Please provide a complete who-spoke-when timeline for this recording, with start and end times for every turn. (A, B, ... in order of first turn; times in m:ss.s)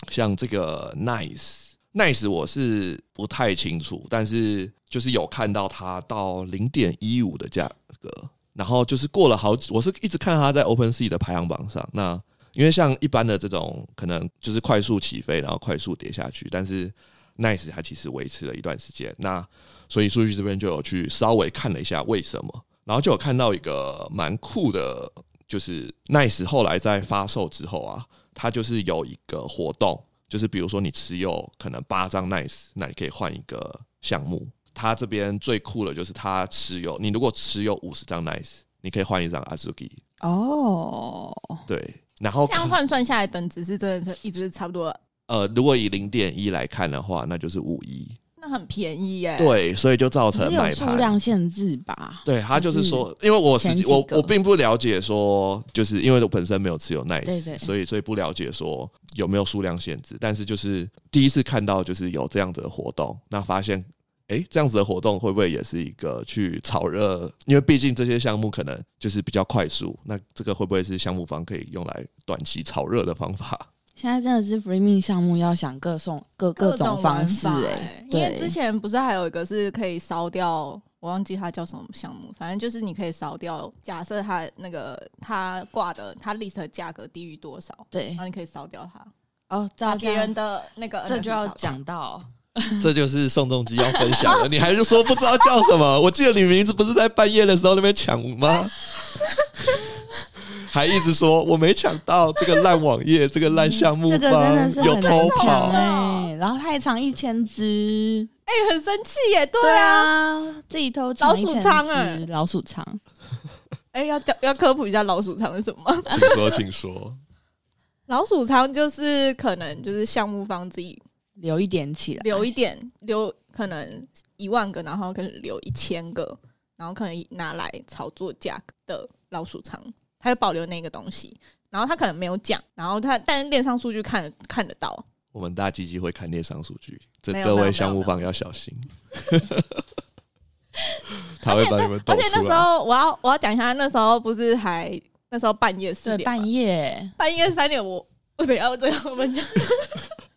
0:00.1-0:40.0 A
0:40.2-0:41.6 B
0:41.7-0:42.8 A
0:42.5-0:45.0 C
0:45.3-0:48.2 A
0:48.4-0:49.6 C
0:49.4-0:51.2 A
0:50.3-0:53.1 B
0:52.2-1:13.7 A
0:53.6-0:54.3 B
0:57.2-0:57.7 B
1:14.0-1:18.6 B
1:16.6-1:29.1 C
1:27.9-1:28.2 B
1:29.5-1:30.3 B
1:29.9-1:31.8 C
1:31.0-1:32.9 B
1:32.8-1:38.9 A
1:40.5-1:45.8 A
1:43.5-1:48.3 B
1:44.8-1:46.3 C
1:48.5-1:50.1 C
1:49.6-1:53.0 B
1:51.2-1:52.2 C
1:53.9-1:56.6 C
1:56.1-1:57.2 A
1:58.1-2:01.0 C
2:01.4-2:02.5 B
2:02.2-2:15.1 C
2:15.3-2:19.8 A
2:17.3-2:18.2 C
2:21.2-2:22.7 A
2:21.4-2:26.5 C
2:26.0-2:27.2 B
2:27.2-2:30.1 C